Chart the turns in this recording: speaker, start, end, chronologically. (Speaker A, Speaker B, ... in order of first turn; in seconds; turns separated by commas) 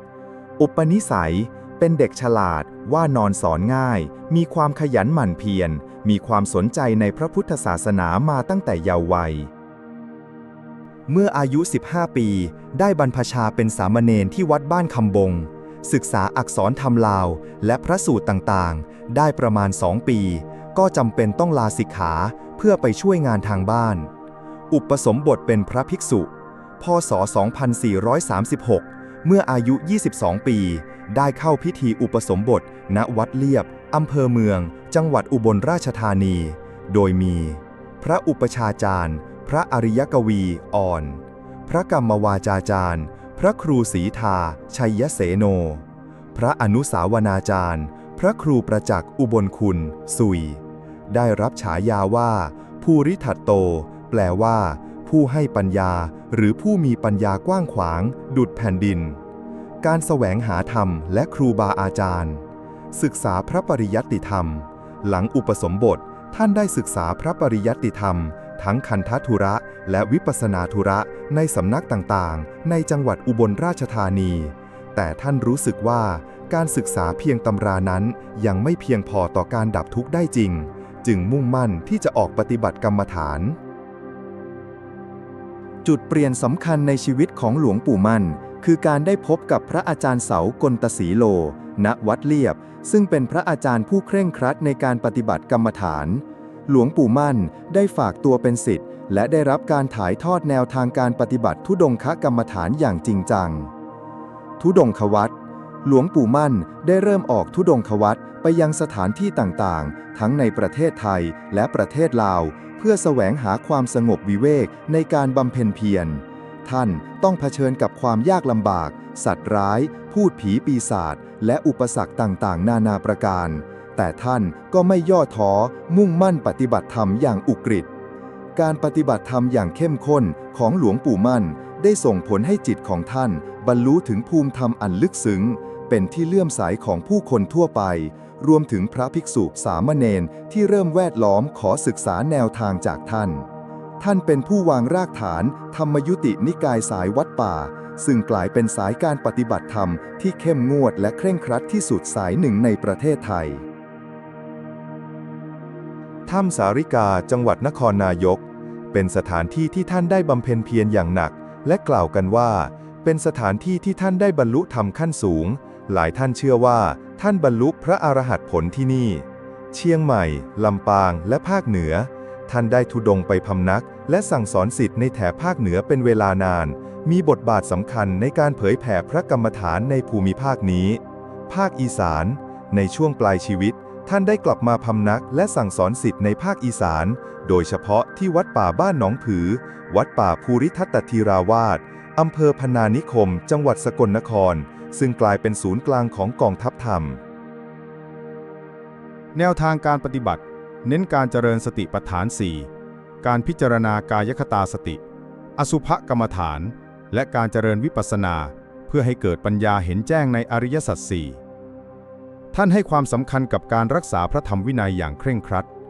Speaker A: 0.6-9.5, Speaker A: 11.1-24.1, Speaker A: 24.7-45.8, Speaker A: 46.4-59.2, Speaker A: 59.8-62.4, Speaker A: 62.9-83.6, Speaker A: 85.8-103.7, Speaker A: 104.6-127.9, Speaker A: 128.6-143.5, Speaker A: 144.0-153.7, Speaker A: 156.3-197.2, Speaker B: 199.4-202.7, Speaker A: 199.4-200.3, Speaker A: 201.2-202.6, Speaker B: 203.2-205.0, Speaker A: 203.5-204.9, Speaker B: 205.6-211.3, Speaker A: 205.6-206.7, Speaker A: 207.5-208.5, Speaker A: 209.2-211.3, Speaker B: 212.5-215.7, Speaker A: 212.6-215.6